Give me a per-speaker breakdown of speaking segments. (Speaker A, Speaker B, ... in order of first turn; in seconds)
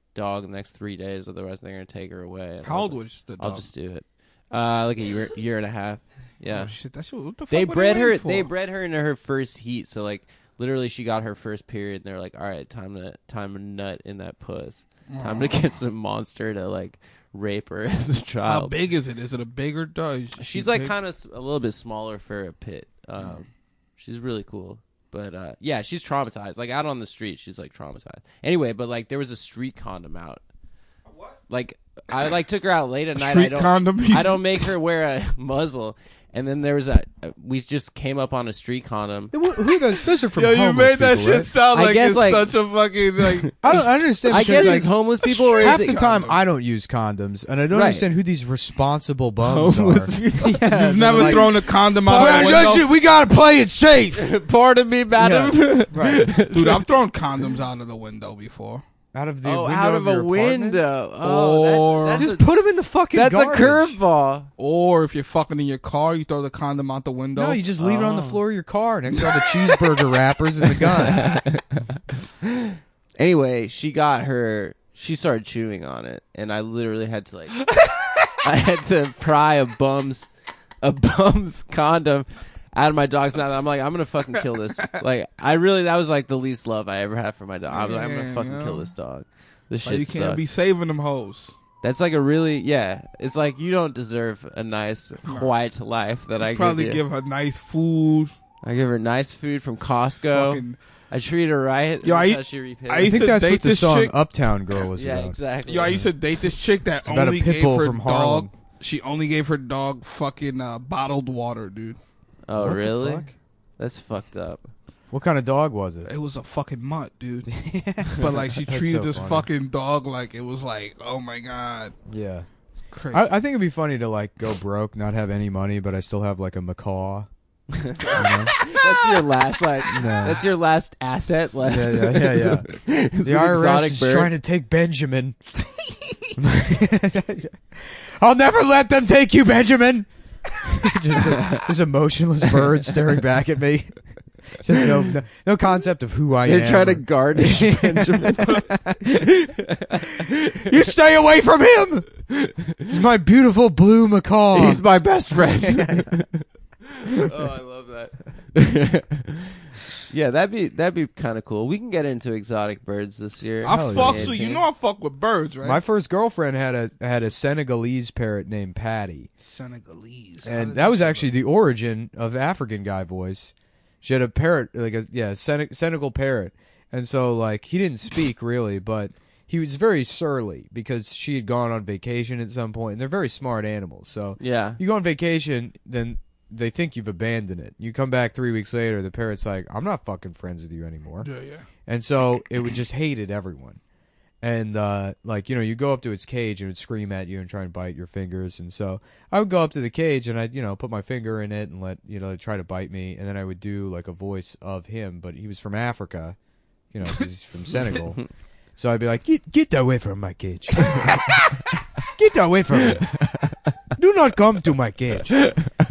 Speaker A: 0.1-6.7, 7.5-18.8, 20.4-30.4, 31.5-39.3, 41.7-42.5, 44.3-46.0, 47.7-48.1, 49.4-52.8, 54.1-56.9, 59.4-62.5, 63.1-64.5, 67.8-68.4, 71.0-77.7, 78.4-80.3, 80.8-90.5, 91.8-97.0, 98.6-103.2, 105.0-106.0, 112.5-113.3, 113.8-114.7, 127.8-134.3, 141.3-141.7, 146.4-148.7, 149.8-150.3, 154.5-156.4, 157.1-164.6, 184.4-184.8
Speaker B: 2.6-3.7, 6.5-8.5, 15.1-15.6, 18.4-20.9, 33.1-34.8, 39.9-46.4, 50.7-52.9, 56.5-58.8, 61.2-62.3, 64.6-67.6, 69.2-69.8, 87.7-88.9, 89.8-91.6, 95.3-95.5, 96.4-98.3, 100.3-100.8, 102.0-104.2, 105.7-112.0, 116.1-117.5, 118.0-122.0, 122.9-123.3, 128.1-129.2, 163.6-165.8, 169.4-171.3, 191.2-191.7
Speaker C: 39.3-41.5, 43.6-44.9, 45.6-54.3, 55.2-56.3, 59.1-60.8, 62.1-64.0, 67.3-71.4, 103.0-105.4, 107.0-108.5, 112.6-113.3, 115.1-116.1, 117.5-119.5, 122.1-122.5, 123.1-127.3, 128.2-128.6, 129.9-130.5, 131.7-132.7, 133.2-135.4, 136.4-154.9, 155.8-156.1, 163.7-164.4, 165.6-169.3, 170.4-191.3, 191.9-193.8, 194.4-206.4, 206.9-208.2, 208.8-211.2, 212.1-213.2, 214.0-215.6